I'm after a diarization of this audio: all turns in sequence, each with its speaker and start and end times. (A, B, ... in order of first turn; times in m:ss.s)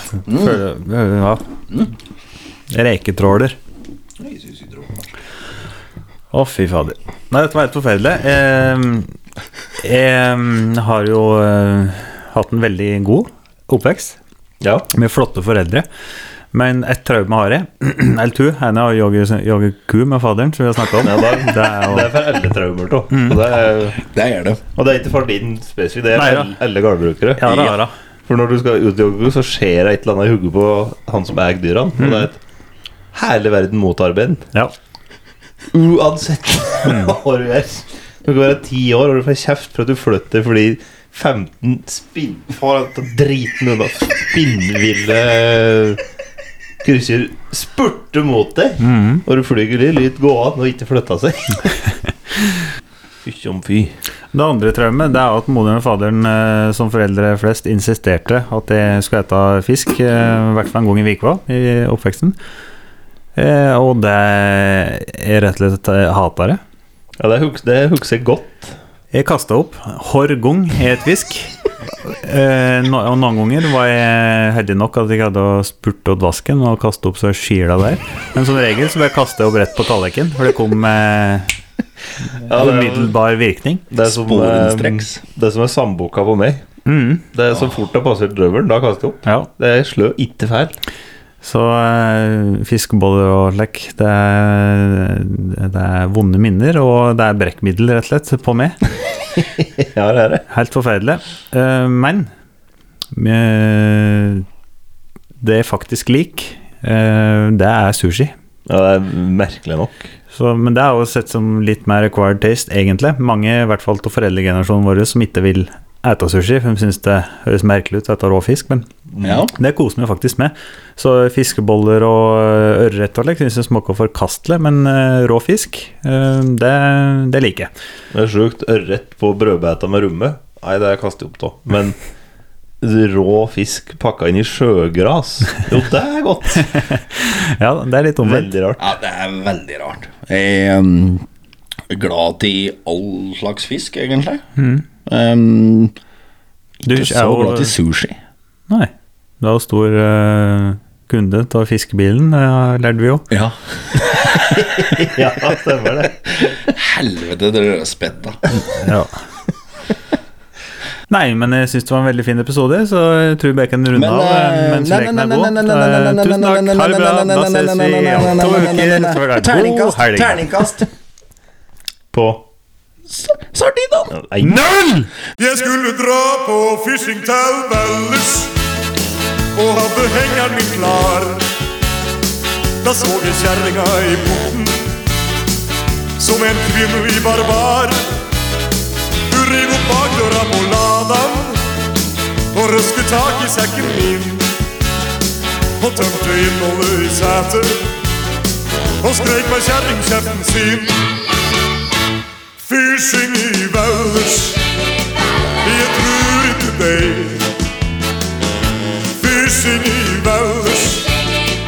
0:00.3-0:00.6 A
0:00.3-0:01.4 B
0:02.7-0:03.6 B
0:04.2-0:05.0 A
0:06.3-0:09.1 B
0:09.8-0:14.2 B
0:14.6-0:14.9 C
0:14.9-0:15.8 B
0:16.5-0:22.1 B
0:21.0-0:24.0 C
0:23.1-0:23.4 B
0:24.0-0:24.6 A
0:24.8-0:32.4 C
0:26.2-0:26.5 B
0:27.4-0:27.9 B
0:32.0-0:32.3 B
0:33.1-0:34.4 C
0:35.7-0:46.0 C
0:36.8-0:37.1 B
0:46.8-0:51.6 C
0:48.8-0:49.2 B
0:53.2-0:53.9 C
0:54.3-1:02.4 B
1:03.3-1:06.6 B
1:07.2-1:08.8 C
1:09.1-1:21.5 B
1:22.4-1:23.8 B
1:22.5-1:23.1 C
1:23.9-1:26.6 C
1:24.0-1:25.2 A
1:26.8-1:27.2 B
1:27.3-1:30.7 C
1:31.4-1:38.8 B
1:39.4-1:40.4 C
1:40.5-1:42.3 B
1:43.1-1:44.4 B
1:45.4-1:48.3 B
1:48.6-1:50.0 C
1:50.3-1:58.9 B
1:59.2-1:59.5 A
1:59.5-2:07.7 B
2:08.1-2:12.0 C
2:12.8-2:16.6 C
2:16.7-2:18.5 B
2:18.2-2:18.8 C
2:18.8-2:21.2 A
2:21.9-2:24.4 A
2:24.6-2:24.8 B
2:25.0-2:25.9 A
2:26.8-2:28.2 A
2:26.8-2:27.7 B
2:28.7-2:33.2 B
2:33.3-2:34.4 A
2:34.4-2:36.2 C
2:36.4-2:38.4 A
2:38.8-2:39.1 B
2:41.1-2:50.8 B
2:43.9-2:50.9 A
2:52.1-2:52.4 C
2:53.1-2:54.1 A
2:54.1-2:54.6 C
2:54.4-2:55.1 B
2:55.4-2:58.5 D
2:59.6-3:01.4 D
3:02.8-3:04.8 D
3:06.2-3:08.0 D
3:09.3-3:11.6 D
3:12.5-3:14.5 D
3:15.8-3:17.8 D
3:19.0-3:21.2 D
3:22.6-3:24.6 D
3:25.6-3:27.5 D
3:29.2-3:31.1 D